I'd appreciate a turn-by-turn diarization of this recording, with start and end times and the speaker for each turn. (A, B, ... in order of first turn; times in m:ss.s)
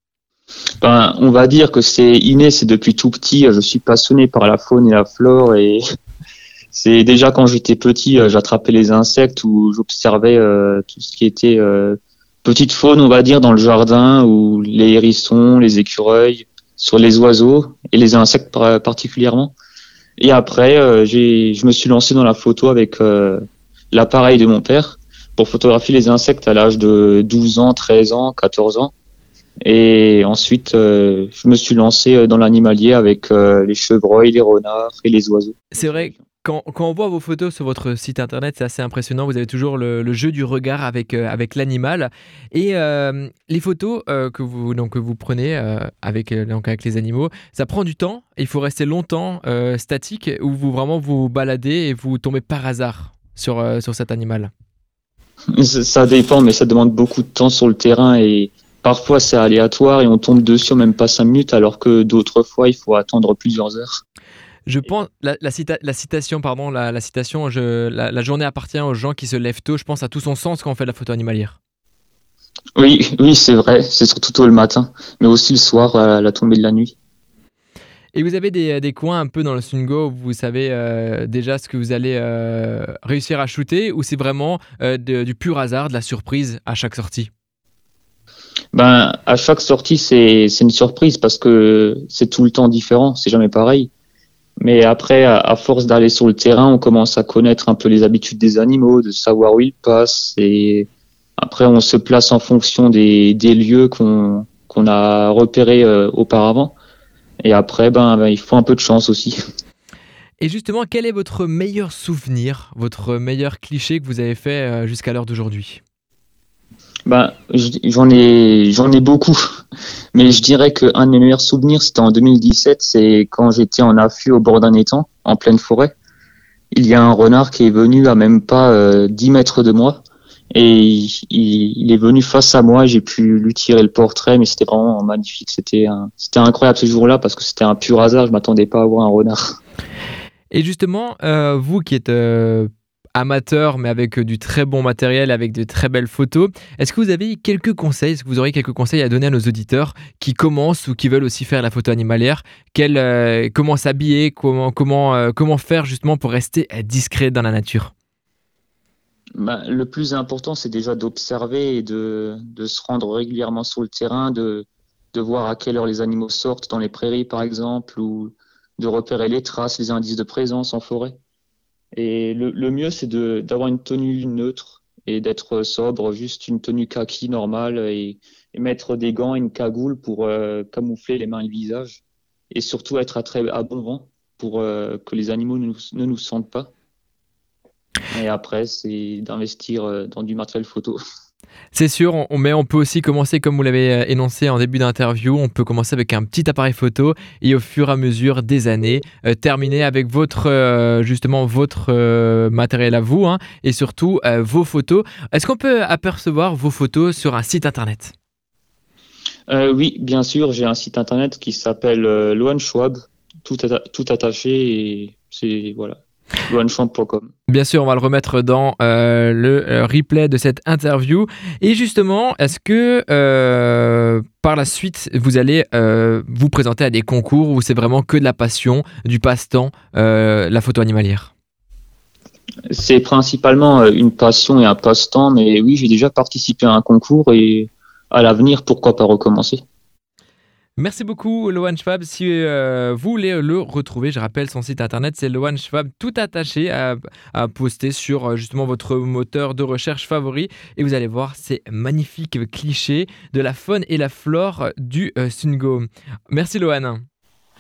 0:00.8-0:05.8 A
0:06.7-0:19.5 A
0:20.2-0:28.9 A
0:29.6-0:36.2 A
0:35.7-0:54.5 B
0:55.6-1:04.0 A
1:04.7-1:11.6 B
1:12.8-1:17.0 A
1:18.2-1:27.3 B
1:28.7-1:33.9 A
1:34.6-1:46.8 A
1:47.4-1:49.4 A
1:50.4-1:55.8 B
1:57.1-1:59.4 A
2:00.1-2:06.0 A
2:06.7-2:10.0 A
2:10.5-2:19.6 A
2:20.5-2:37.9 B
2:39.4-2:51.2 A
2:51.9-3:06.7 A
3:08.1-3:11.0 A
3:11.7-3:28.1 B
3:29.5-3:37.3 A
3:37.5-3:51.3 B
3:52.7-3:59.6 A
4:00.8-4:17.0 B